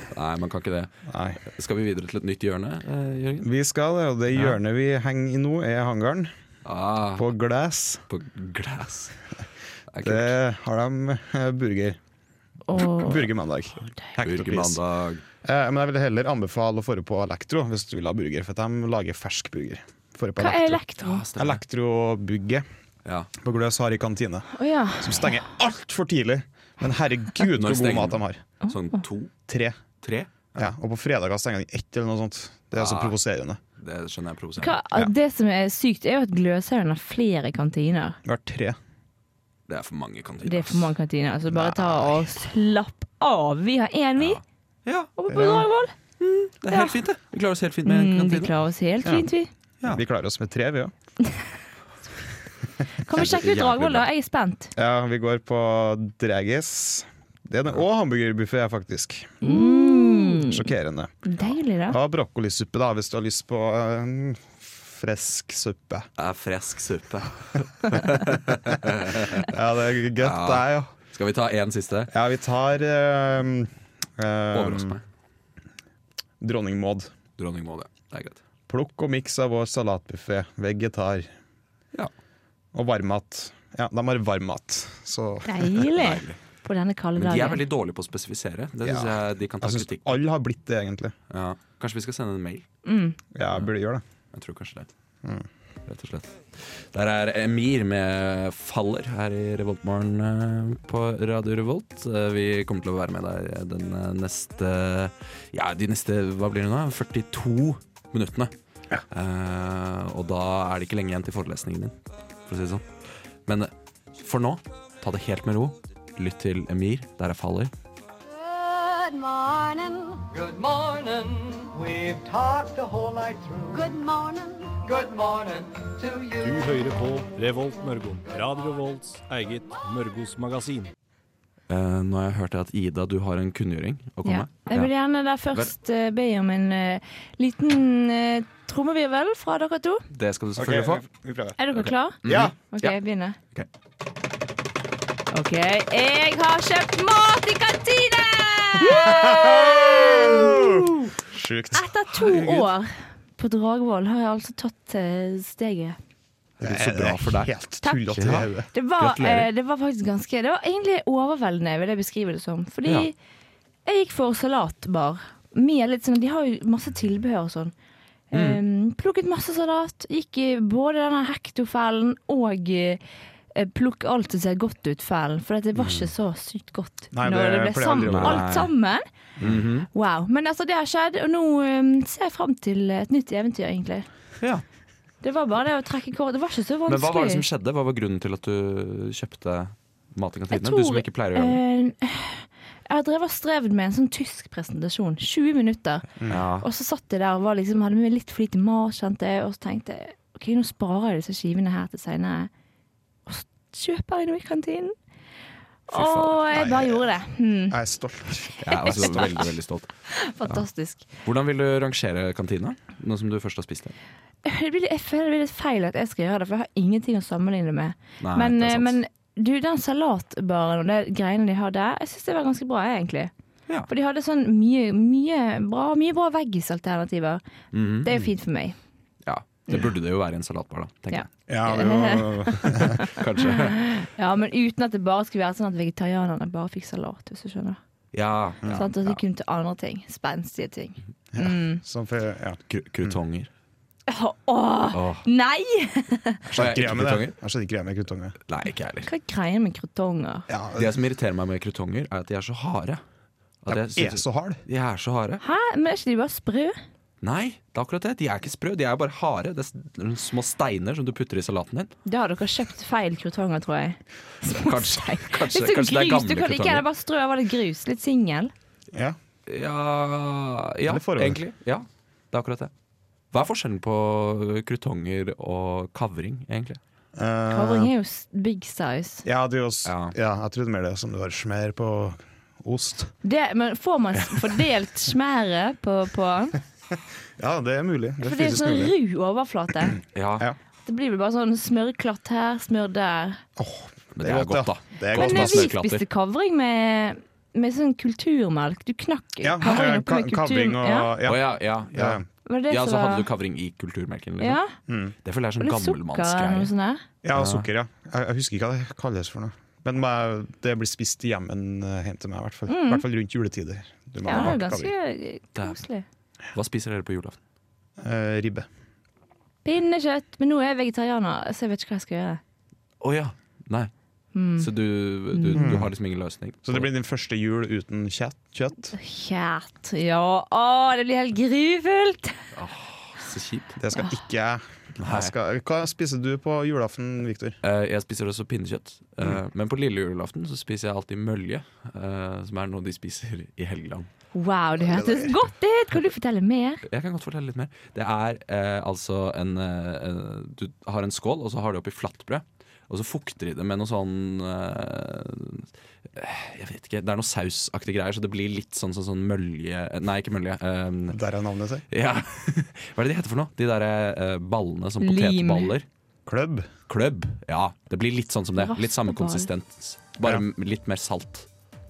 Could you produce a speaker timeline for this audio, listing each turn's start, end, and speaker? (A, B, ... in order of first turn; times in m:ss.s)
0:00.1-0:03.5 A
0:01.1-0:01.4 B
0:03.4-0:06.3 B
0:04.3-0:04.6 A
0:06.6-0:07.3 A
0:07.1-0:08.0 B
0:08.1-0:09.2 A
0:09.9-0:10.3 A
0:10.0-0:12.0 B
0:12.7-0:13.3 C
0:12.8-0:14.8 B
0:14.2-0:15.2 A
0:15.4-0:20.8 B
0:20.4-0:21.2 C
0:21.0-0:21.6 A
0:21.4-0:22.6 B
0:23.4-0:28.4 B
0:24.5-0:25.4 C
0:27.5-0:29.3 A
0:28.6-0:29.0 C
0:29.5-0:29.8 B
0:30.0-0:30.6 A
0:30.5-0:33.6 B
0:32.8-0:33.2 A
0:33.8-0:34.8 A
0:34.6-0:38.2 C
0:38.2-0:38.8 B
0:39.7-0:40.9 A
0:40.4-0:44.4 C
0:41.5-0:42.3 B
0:44.2-0:45.1 A
0:45.2-0:45.9 C
0:45.3-0:45.7 B
0:46.2-0:48.5 A
0:46.7-0:47.0 C
0:47.8-0:49.5 C
0:49.8-0:50.9 B
0:53.0-0:54.7 C
0:53.1-0:54.1 A
0:54.8-1:01.1 B
0:59.4-1:00.6 C
1:01.2-1:02.0 C
1:01.9-1:06.1 B
1:06.2-1:09.5 A
1:08.5-1:10.9 B
1:10.2-1:12.1 A
1:12.1-1:15.0 B
1:14.5-1:15.0 A
1:16.4-1:17.1 B
1:17.4-1:18.4 A
1:18.7-1:21.3 B
1:22.7-1:25.8 B
1:25.4-1:27.6 C
1:25.9-1:26.4 A
1:27.2-1:30.2 A
1:28.8-1:31.1 B
1:31.3-1:32.6 A
1:32.8-1:33.2 C
1:33.3-1:34.0 B
1:34.3-1:34.9 A
1:35.9-1:48.5 A
1:49.1-1:51.9 A
1:52.5-1:52.8 A
1:53.5-1:57.7 A
1:58.2-2:00.2 D
2:00.3-2:03.9 E
2:03.7-2:04.8 D
2:04.8-2:06.7 E
2:06.4-2:10.9 F
2:11.7-2:14.9 A
2:14.2-2:20.0 C
2:20.1-2:21.0 A
2:20.6-2:21.6 B
2:21.6-2:23.4 C
2:21.7-2:23.0 A
2:22.2-2:22.5 B
2:25.3-2:30.6 C
2:28.8-2:32.5 B
2:31.7-2:36.0 C
2:36.6-2:37.5 A
2:36.6-2:38.7 B
2:38.1-2:39.5 A
2:38.7-2:43.1 C
2:43.8-2:47.7 C
2:48.3-2:53.0 C
2:48.3-2:48.6 A
2:53.5-2:59.0 C
2:57.1-2:58.5 B
2:58.0-2:58.7 A
2:59.4-2:59.9 A
2:59.9-3:04.1 C
3:05.2-3:07.4 C
3:06.9-3:11.6 A
3:10.5-3:22.5 C
3:16.2-3:16.4 B
3:16.3-3:16.7 A
3:23.2-3:24.9 C
3:25.9-3:27.8 C
3:25.9-3:26.6 A
3:26.5-3:27.1 B
3:27.7-3:29.3 B
3:28.6-3:29.9 A
3:28.8-3:29.4 C
3:30.1-3:31.1 C
3:31.2-3:34.0 A
3:34.4-3:43.3 C
3:38.2-3:38.9 A
3:43.9-3:47.4 C
3:47.7-3:48.2 A
3:48.0-3:48.8 C
3:49.2-3:51.3 A
3:51.1-3:57.8 C
3:51.5-3:53.0 B
3:53.1-3:53.8 A
3:58.1-3:59.2 A
3:58.7-4:01.8 C
4:01.3-4:03.2 B
4:02.7-4:03.5 A
4:04.1-4:06.4 C
4:04.9-4:05.2 A
4:06.5-4:07.4 A
4:06.5-4:08.3 B
4:08.5-4:09.1 A
4:09.0-4:10.5 C
4:10.5-4:10.9 B
4:10.7-4:13.0 A
4:13.6-4:15.4 A
4:13.7-4:14.6 B
4:15.4-4:16.8 C
4:17.2-4:21.9 A
4:22.0-4:28.5 C
4:24.4-4:26.8 A
4:29.5-4:32.7 A
4:30.8-4:31.4 B
4:33.3-4:36.8 A
4:37.2-4:37.9 B
4:37.5-4:39.2 C
4:39.2-4:43.1 B
4:39.8-4:40.1 A
4:43.2-4:46.6 C
4:47.4-4:48.9 B
4:48.2-4:50.0 C
4:50.1-4:50.5 A
4:50.8-4:53.4 C
4:53.6-4:55.7 B
4:54.1-4:56.0 A
4:55.1-5:01.1 C
4:59.4-5:02.2 B
5:01.2-5:04.6 A
5:02.4-5:03.2 C
5:04.4-5:04.7 C
5:04.9-5:05.1 B
5:05.2-5:06.7 A
5:05.6-5:07.0 C
5:07.2-5:14.9 B
5:07.3-5:07.7 A
5:12.7-5:13.0 C
5:14.2-5:16.0 C
5:14.3-5:14.6 A
5:16.5-5:17.4 A
5:18.0-5:18.7 B
5:19.6-5:22.4 C
5:23.0-5:23.9 A
5:24.3-5:24.7 C
5:24.6-5:26.9 A
5:25.3-5:25.8 C
5:25.5-5:25.9 B
5:26.6-5:28.9 B
5:28.9-5:32.4 C
5:32.5-5:33.8 A
5:33.8-5:37.6 B
5:35.0-5:35.3 A
5:37.6-5:44.1 A
5:44.3-5:46.8 C
5:44.8-5:45.3 B
5:46.8-6:01.2 A
6:01.1-6:01.8 B
6:01.9-6:05.8 A
6:05.0-6:05.7 C
6:06.2-6:06.7 B
6:06.9-6:11.5 A
6:08.6-6:09.5 C